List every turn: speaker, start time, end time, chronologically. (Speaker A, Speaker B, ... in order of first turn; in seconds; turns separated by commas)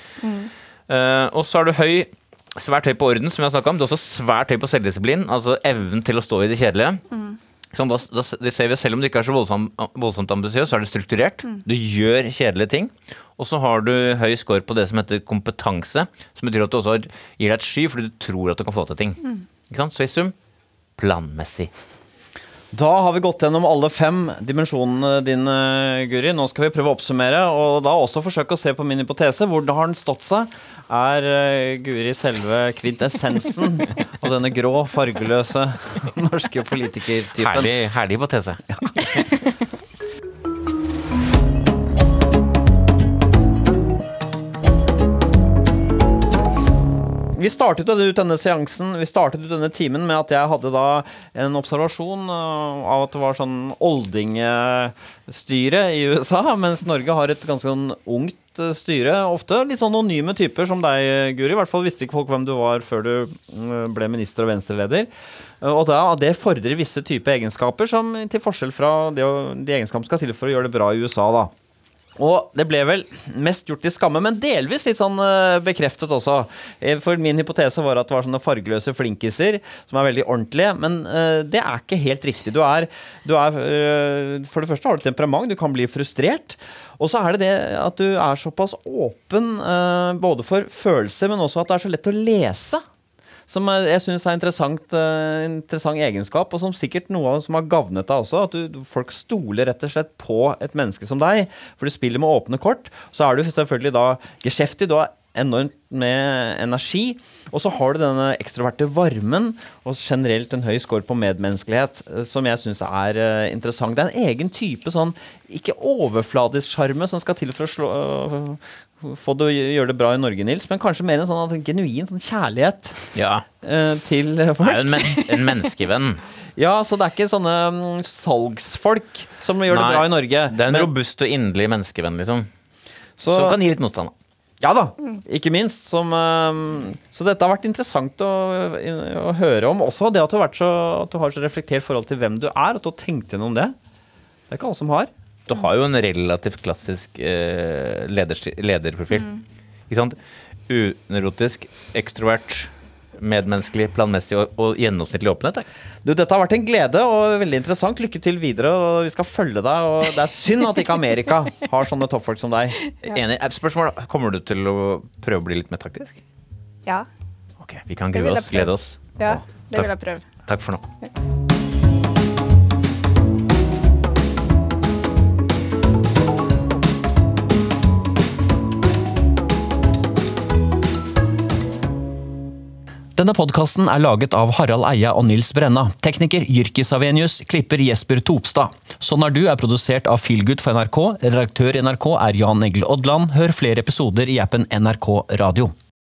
Speaker A: 0.2-0.5, Speaker B: 0.9-7.0, Speaker A: 7.1-7.4, Speaker B: 7.7-20.3, Speaker B: 21.0-21.7, Speaker C: 22.7-37.7, Speaker B: 37.4-38.6, Speaker C: 47.3-65.1, Speaker C: 65.6-71.5, Speaker C: 72.2-92.8, Speaker C: 93.5-125.5, Speaker B: 123.1-123.5, Speaker B: 124.6-126.2, Speaker C: 126.6-130.9, Speaker B: 129.7-132.5, Speaker B: 133.2-134.1, Speaker C: 133.2-133.6, Speaker C: 134.6-143.7, Speaker C: 144.5-145.1, Speaker B: 145.5-149.4, Speaker B: 149.9-150.2, Speaker B: 150.7-155.7, Speaker C: 156.0-162.8, Speaker A: 162.9-163.2, Speaker B: 163.1-166.2, Speaker B: 167.6-169.1, Speaker A: 168.1-170.3, Speaker B: 170.4-170.8, Speaker C: 183.2-195.7